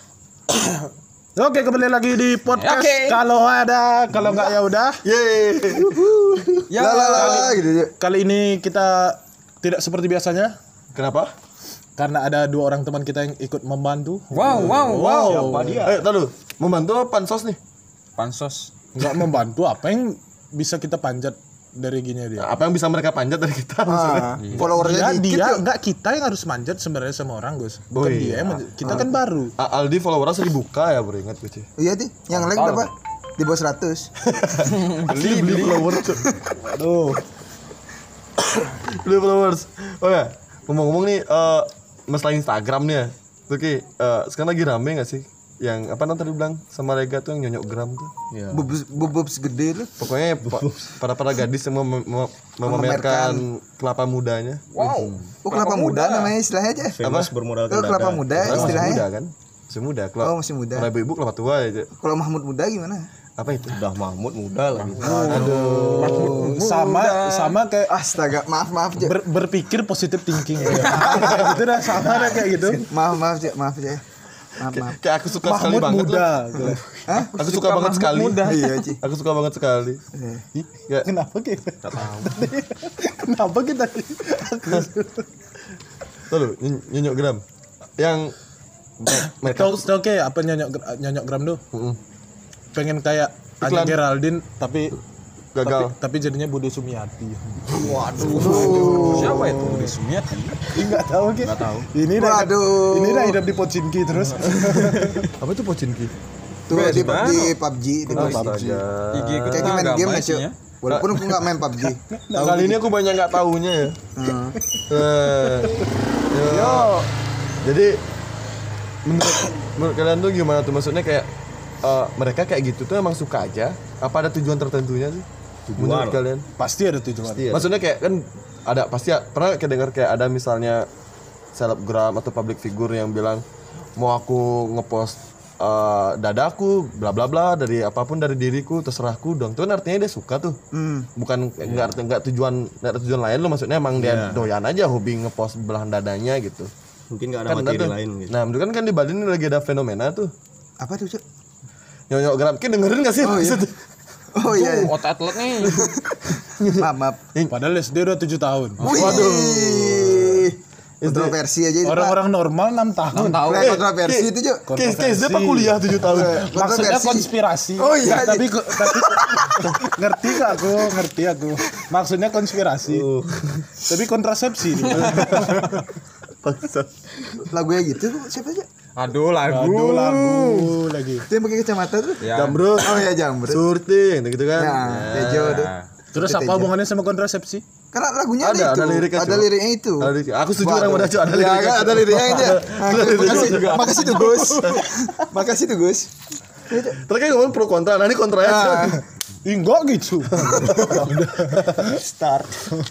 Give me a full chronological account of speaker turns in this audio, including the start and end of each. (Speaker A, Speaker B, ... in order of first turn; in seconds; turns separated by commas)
Speaker A: 0.5-5.0, Speaker B: 2.5-3.2, Speaker C: 5.0-6.6, Speaker D: 5.8-7.9, Speaker B: 6.7-7.6, Speaker A: 7.1-10.6, Speaker C: 10.9-11.3, Speaker A: 12.0-15.9, Speaker B: 14.3-15.6, Speaker E: 14.4-16.0, Speaker C: 15.8-17.6, Speaker B: 18.2-18.7, Speaker A: 18.9-22.5, Speaker C: 22.4-24.4, Speaker D: 23.9-25.6, Speaker B: 24.4-24.7, Speaker A: 24.6-29.5, Speaker C: 27.9-31.7, Speaker D: 28.8-29.1, Speaker D: 31.8-34.1, Speaker B: 32.3-32.9, Speaker C: 34.4-36.3, Speaker B: 34.7-35.9, Speaker D: 36.0-36.5, Speaker A: 36.5-37.2, Speaker C: 38.7-48.1, Speaker E: 48.3-48.7, Speaker D: 48.5-49.9, Speaker C: 50.0-54.7, Speaker E: 50.4-51.0, Speaker D: 52.6-53.5, Speaker B: 54.7-56.4, Speaker E: 54.8-55.3, Speaker D: 55.5-57.0, Speaker E: 56.8-59.0, Speaker C: 57.0-57.3, Speaker D: 57.7-59.1, Speaker C: 58.4-61.9, Speaker D: 60.2-60.9, Speaker D: 62.0-63.1, Speaker C: 63.4-63.8, Speaker E: 63.7-65.9, Speaker C: 65.0-66.2, Speaker A: 65.0-68.0, Speaker B: 65.9-67.6, Speaker D: 67.9-69.2, Speaker A: 69.0-72.9, Speaker E: 70.6-72.8, Speaker B: 70.7-71.4, Speaker D: 70.8-71.3, Speaker D: 72.9-74.0, Speaker D: 74.6-75.0, Speaker C: 74.7-76.3, Speaker A: 75.4-77.1, Speaker D: 77.1-77.5, Speaker C: 77.3-80.0, Speaker B: 77.4-78.9, Speaker D: 78.4-79.0, Speaker D: 80.1-80.5, Speaker A: 80.5-85.3, Speaker E: 82.0-82.5, Speaker C: 86.3-87.4, Speaker C: 88.0-88.3, Speaker C: 89.0-89.9, Speaker A: 89.2-91.6, Speaker C: 91.7-92.0, Speaker A: 92.7-95.0, Speaker C: 93.6-94.0, Speaker C: 95.5-96.0, Speaker A: 95.6-99.9, Speaker B: 97.7-100.7, Speaker E: 97.7-98.7, Speaker C: 98.2-99.5, Speaker D: 98.3-99.4, Speaker A: 100.7-105.3, Speaker B: 101.4-101.9, Speaker D: 102.2-103.4, Speaker B: 104.8-105.1, Speaker C: 104.9-106.1, Speaker D: 106.7-108.5, Speaker B: 106.7-107.6, Speaker C: 106.7-107.5, Speaker C: 108.1-109.8, Speaker A: 108.1-108.8, Speaker B: 109.1-110.5, Speaker D: 109.5-112.8, Speaker C: 110.9-111.4, Speaker A: 111.8-112.7, Speaker C: 112.3-114.0, Speaker D: 114.2-114.6, Speaker A: 114.7-115.9, Speaker C: 114.9-115.8, Speaker C: 116.3-117.0, Speaker A: 116.4-117.1, Speaker C: 117.6-118.0, Speaker C: 119.1-121.3, Speaker C: 121.8-125.2, Speaker E: 125.7-126.2, Speaker C: 125.8-126.5, Speaker A: 126.6-127.7, Speaker E: 127.2-127.6, Speaker C: 127.5-130.9, Speaker C: 131.6-133.4, Speaker C: 134.0-140.6, Speaker D: 140.7-141.1, Speaker C: 141.2-146.7, Speaker E: 141.6-141.9, Speaker E: 144.0-144.5, Speaker E: 147.1-148.4, Speaker C: 147.5-150.3, Speaker D: 150.8-151.2, Speaker C: 152.1-153.8, Speaker D: 153.2-153.7, Speaker D: 154.3-155.0, Speaker B: 154.4-155.9, Speaker D: 155.6-157.2, Speaker C: 156.3-157.6, Speaker A: 157.5-159.1, Speaker C: 158.8-161.4, Speaker D: 158.8-162.2, Speaker B: 158.9-159.2, Speaker A: 161.8-163.5, Speaker B: 163.1-163.8, Speaker D: 163.4-164.7, Speaker C: 163.6-166.5, Speaker A: 164.7-173.2, Speaker D: 166.1-170.7, Speaker E: 172.9-173.5, Speaker A: 173.7-175.9, Speaker B: 174.8-175.7, Speaker C: 174.9-175.8, Speaker C: 176.4-177.5, Speaker D: 177.5-178.7, Speaker B: 179.0-180.8, Speaker A: 179.5-181.3, Speaker D: 181.3-183.6, Speaker B: 182.2-182.6, Speaker C: 182.3-185.7, Speaker D: 184.6-186.7, Speaker B: 185.2-185.9, Speaker A: 186.1-187.6, Speaker D: 187.9-196.1, Speaker C: 188.4-194.9, Speaker B: 193.4-194.0, Speaker A: 194.1-194.4, Speaker D: 196.7-197.0, Speaker C: 196.9-199.0, Speaker D: 198.4-199.0, Speaker A: 199.4-202.0, Speaker C: 200.3-201.1, Speaker E: 200.7-202.8